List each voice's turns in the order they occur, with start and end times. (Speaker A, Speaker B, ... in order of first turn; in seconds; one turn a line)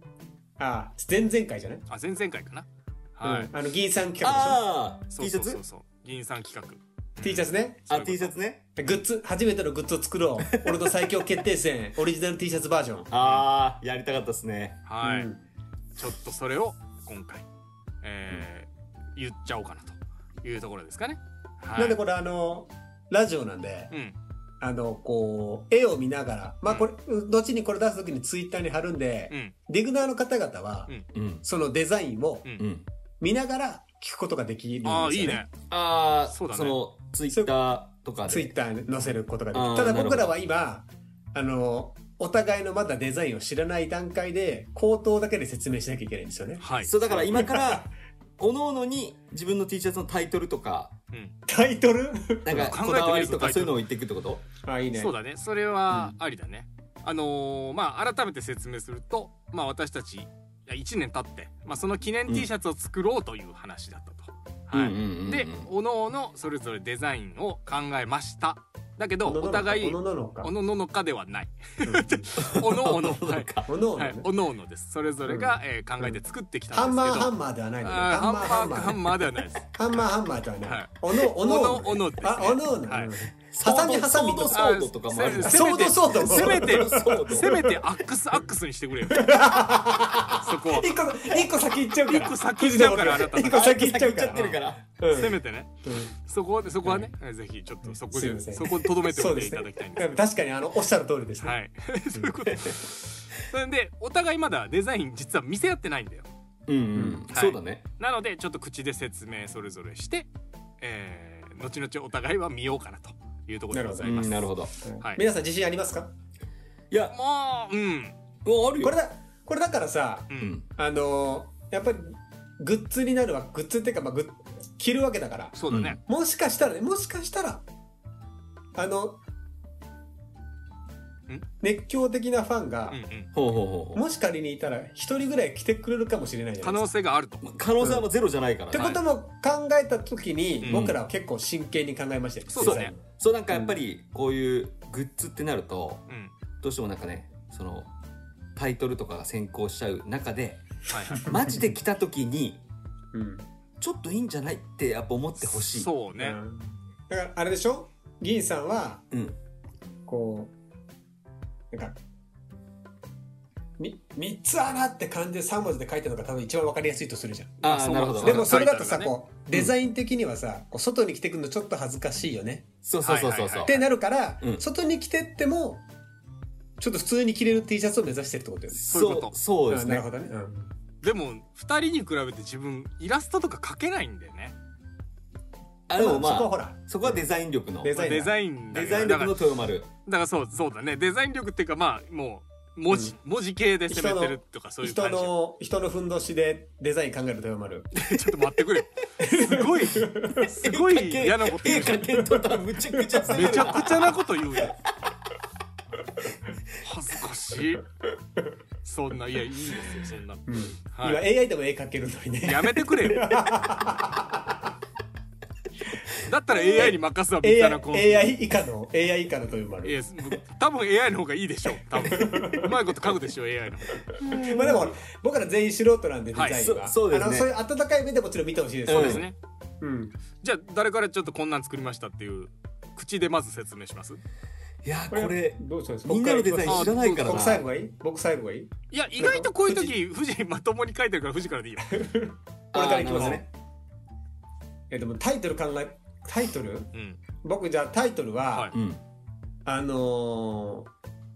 Speaker A: 0.6-1.8
Speaker B: 1.9-3.5
Speaker A: 3.2-4.6
Speaker C: 4.2-5.6
Speaker B: 5.1-8.3
Speaker A: 7.2-7.8
Speaker C: 7.9-8.6
Speaker A: 8.8-13.1
Speaker C: 10.4-10.9
Speaker C: 13.1-14.8
Speaker B: 13.1-13.4
Speaker B: 14.8-15.3
Speaker A: 15.0-15.4
Speaker B: 15.9-17.5
Speaker B: 18.0-22.0
Speaker A: 21.8-23.9
Speaker B: 23.9-24.1
Speaker A: 24.6-30.9
Speaker C: 31.1-31.4
Speaker A: 31.4-32.5
Speaker C: 32.6-32.8
Speaker A: 33.2-35.4
Speaker B: 34.8-35.5
Speaker C: 35.7-38.5
Speaker B: 36.3-36.8
Speaker A: 37.3-37.5
Speaker A: 38.3-47.9
Speaker C: 39.5-40.3
Speaker B: 46.6-47.0
Speaker C: 46.8-47.9
Speaker C: 48.4-50.9
Speaker A: 51.5-52.7
Speaker C: 52.4-54.4
Speaker B: 52.5-53.8
Speaker A: 54.6-55.1
Speaker B: 54.9-80.1
Speaker C: 64.7-65.7
Speaker A: 69.2-70.5
Speaker A: 71.8-72.3
Speaker C: 72.4-73.7
Speaker A: 73.7-74.3
Speaker A: 75.2-76.2
Speaker A: 76.7-79.1
Speaker A: 79.7-84.7
Speaker B: 80.6-83.1
Speaker C: 83.5-87.6
Speaker B: 84.5-89.4
Speaker A: 85.2-87.7
Speaker A: 89.1-94.5
Speaker B: 90.4-90.9
Speaker B: 92.1-93.8
Speaker C: 93.4-94.8
Speaker B: 94.3-94.6
Speaker A: 95.0-96.1
Speaker B: 95.1-100.1
Speaker A: 97.9-101.5
Speaker B: 101.4-106.3
Speaker C: 106.7-107.8
Speaker A: 106.9-107.2
Speaker B: 107.3-110.3
Speaker B: 110.8-114.4
Speaker A: 113.7-114.3
Speaker C: 114.0-114.7
Speaker A: 114.8-116.1
Speaker B: 117.1-118.2
Speaker C: 118.4-119.0
Speaker A: 118.8-127.6
Speaker C: 120.4-120.6
Speaker B: 125.5-126.0
Speaker C: 125.7-126.0
Speaker A: 128.7-129.2
Speaker A: 131.6-133.0
Speaker B: 132.9-133.3
Speaker C: 133.3-134.0
Speaker A: 133.9-136.9
Speaker B: 136.6-137.4
Speaker C: 137.4-139.0
Speaker A: 137.8-138.1
Speaker A: 138.7-143.0
Speaker C: 140.6-141.0
Speaker B: 142.5-142.9
Speaker C: 142.6-146.0
Speaker A: 143.5-143.8
Speaker B: 146.1-146.3
Speaker C: 146.6-147.9
Speaker C: 148.6-152.6
Speaker B: 150.9-151.3
Speaker A: 151.3-151.6
Speaker A: 153.1-153.5
Speaker C: 153.8-155.9
Speaker B: 155.4-156.4
Speaker A: 156.2-159.1
Speaker C: 159.1-159.3
Speaker A: 160.1-160.5
Speaker A: 161.7-161.9
Speaker A: 163.8-172.7
Speaker C: 167.6-168.6
Speaker B: 167.6-169.1
Speaker C: 172.8-173.8
Speaker B: 173.0-173.7
Speaker A: 173.7-175.8
Speaker A: 176.8-178.9
Speaker C: 178.7-180.1
Speaker B: 178.9-179.3
Speaker A: 179.7-180.7
Speaker B: 181.0-184.5
Speaker C: 185.9-188.0
Speaker A: 185.9-187.3
Speaker A: 187.8-188.3
Speaker B: 187.9-189.4
Speaker C: 188.7-189.9
Speaker B: 190.1-195.3
Speaker A: 193.9-197.9
Speaker B: 197.9-202.0
Speaker A: 199.2-200.5
Speaker C: 200.6-204.1
Speaker A: 201.9-203.7
Speaker B: 203.3-204.8
Speaker B: 206.8-207.8
Speaker B: 208.8-211.2
Speaker A: 210.5-214.6
Speaker B: 212.4-213.3
Speaker B: 216.2-218.3
Speaker A: 216.6-220.0
Speaker B: 219.8-224.2
Speaker A: 222.1-222.7
Speaker C: 222.3-222.7
Speaker A: 224.1-229.3
Speaker C: 224.2-224.9
Speaker B: 226.3-226.6
Speaker C: 226.5-227.5
Speaker C: 228.8-229.2
Speaker B: 228.9-229.3
Speaker A: 229.8-230.2
Speaker B: 230.4-234.2
Speaker C: 234.8-237.6
Speaker A: 235.1-239.9
Speaker B: 236.7-237.4
Speaker B: 238.9-241.9
Speaker A: 241.9-243.5
Speaker C: 242.7-243.4
Speaker B: 243.2-243.4
Speaker A: 244.9-246.9
Speaker B: 246.9-247.2
Speaker A: 247.4-248.7
Speaker C: 248.7-249.0
Speaker A: 249.7-250.9